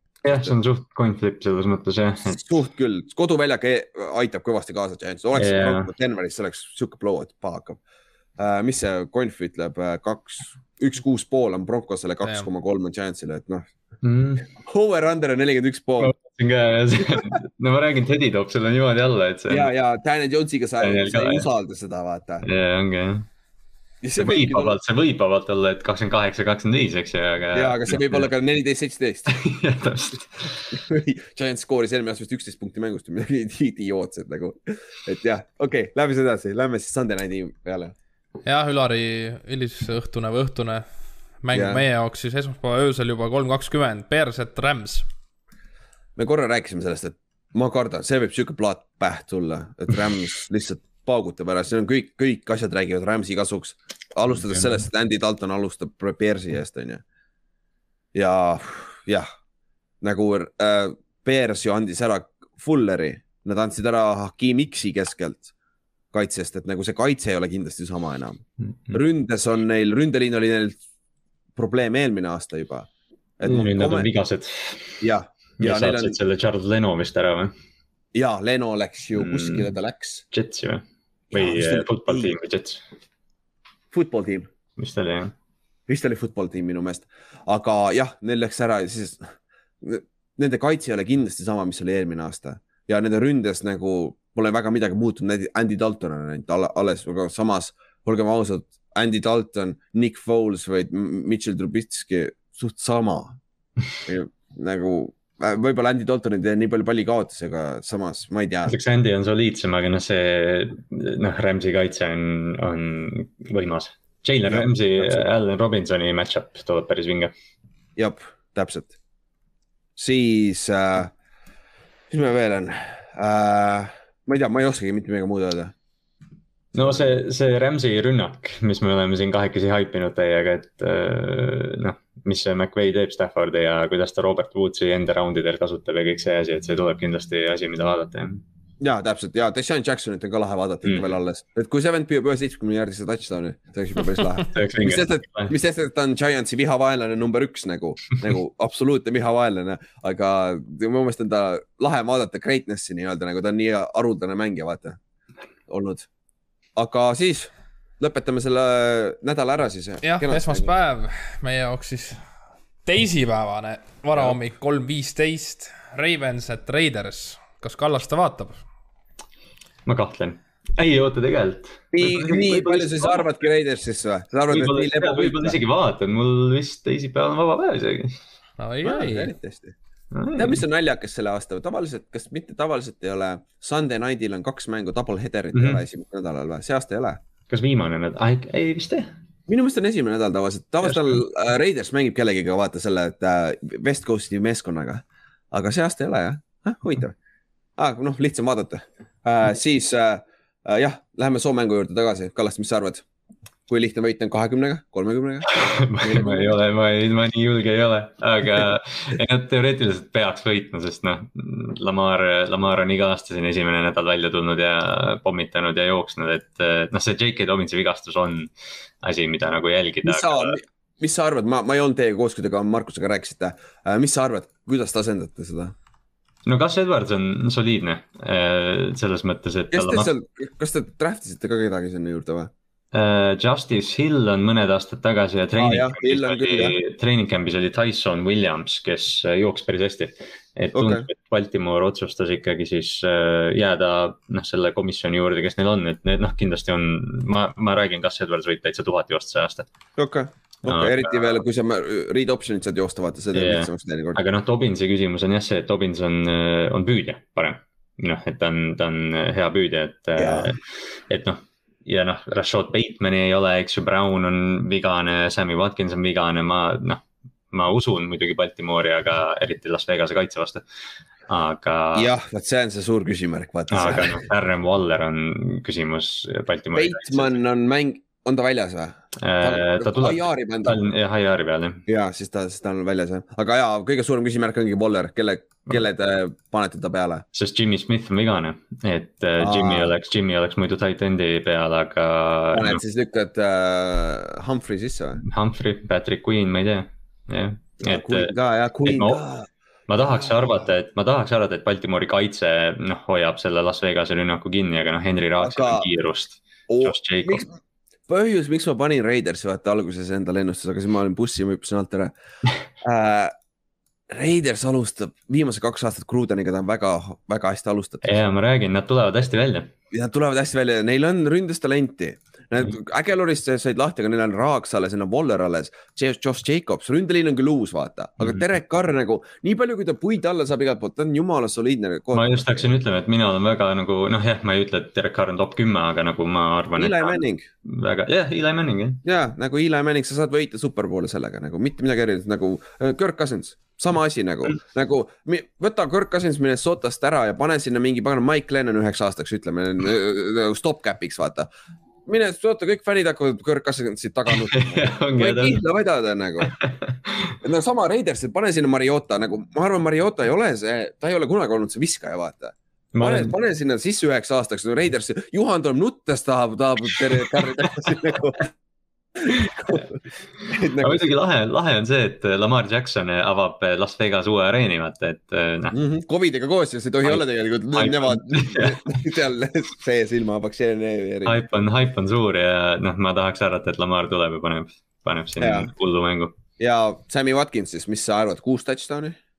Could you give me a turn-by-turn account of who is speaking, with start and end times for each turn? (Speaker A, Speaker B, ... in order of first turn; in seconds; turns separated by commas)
Speaker A: 0.2-2.4, Speaker B: 2.3-7.8, Speaker A: 5.4-5.9, Speaker B: 8.4-13.7, Speaker A: 14.0-14.5, Speaker B: 14.5-16.1, Speaker A: 16.0-19.7, Speaker B: 19.5-22.4, Speaker A: 20.8-21.5, Speaker A: 22.4-23.3, Speaker B: 24.0-24.8, Speaker A: 24.2-28.3, Speaker B: 27.5-29.4, Speaker A: 29.3-30.7, Speaker B: 30.7-37.9, Speaker C: 38.5-40.9, Speaker C: 41.4-45.1, Speaker B: 41.5-41.8, Speaker B: 46.2-57.0, Speaker B: 58.1-59.3, Speaker B: 60.0-65.5, Speaker B: 66.1-68.4, Speaker A: 68.7-69.0, Speaker B: 68.9-70.8, Speaker B: 71.6-72.9, Speaker B: 73.4-74.1, Speaker A: 73.5-75.0, Speaker B: 75.0-76.2, Speaker A: 75.6-77.5, Speaker B: 78.1-80.2, Speaker A: 79.2-79.7, Speaker A: 80.3-82.8, Speaker B: 81.3-82.3, Speaker B: 83.9-84.5, Speaker A: 84.8-85.3, Speaker B: 85.9-103.4, Speaker B: 104.0-108.8, Speaker A: 108.7-117.3, Speaker B: 114.5-115.2, Speaker B: 118.0-119.0, Speaker B: 120.0-121.1, Speaker B: 122.1-125.7, Speaker B: 126.8-127.1, Speaker A: 126.8-138.4, Speaker B: 138.8-155.0, Speaker A: 140.8-141.1, Speaker A: 144.1-145.5, Speaker B: 155.7-156.1, Speaker B: 156.8-160.7, Speaker C: 160.0-162.3, Speaker C: 162.8-168.6, Speaker A: 169.9-173.3, Speaker B: 171.9-175.6, Speaker A: 174.5-178.2, Speaker C: 178.6-179.3, Speaker B: 178.8-179.8, Speaker A: 180.1-180.6, Speaker B: 180.4-187.2, Speaker A: 185.5-185.8, Speaker A: 187.5-189.1, Speaker B: 189.5-197.2, Speaker A: 190.8-191.2, Speaker B: 197.8-203.1, Speaker B: 203.7-206.6, Speaker A: 205.5-218.5, Speaker A: 219.0-220.6, Speaker B: 220.0-225.7, Speaker A: 226.5-230.1, Speaker B: 229.7-232.5, Speaker A: 232.9-249.7, Speaker B: 235.6-236.8, Speaker B: 240.8-241.1, Speaker B: 250.0-254.2, Speaker A: 250.7-251.3, Speaker A: 253.3-270.6, Speaker B: 260.2-260.5, Speaker A: 271.3-272.1, Speaker B: 271.9-274.2, Speaker A: 273.7-277.4, Speaker B: 276.7-280.8, Speaker A: 279.2-281.8, Speaker B: 281.9-287.2, Speaker A: 287.3-292.8, Speaker B: 289.4-289.9, Speaker B: 292.5-295.2, Speaker A: 295.2-299.2, Speaker B: 297.8-299.5, Speaker A: 299.9-307.4, Speaker B: 305.4-305.9, Speaker B: 306.7-312.1, Speaker B: 312.8-313.3, Speaker B: 314.1-318.1, Speaker A: 318.0-319.7, Speaker B: 319.9-332.6, Speaker A: 332.1-339.0, Speaker B: 336.8-337.5, Speaker B: 339.0-351.5, Speaker B: 352.1-356.5, Speaker A: 354.4-355.6, Speaker A: 356.4-357.3, Speaker B: 357.4-368.5, Speaker A: 362.9-363.3, Speaker B: 369.3-369.9, Speaker B: 370.5-371.1, Speaker A: 370.8-375.8, Speaker B: 375.7-381.5, Speaker A: 377.8-378.8, Speaker A: 381.3-386.4, Speaker B: 385.4-385.7, Speaker B: 386.6-389.2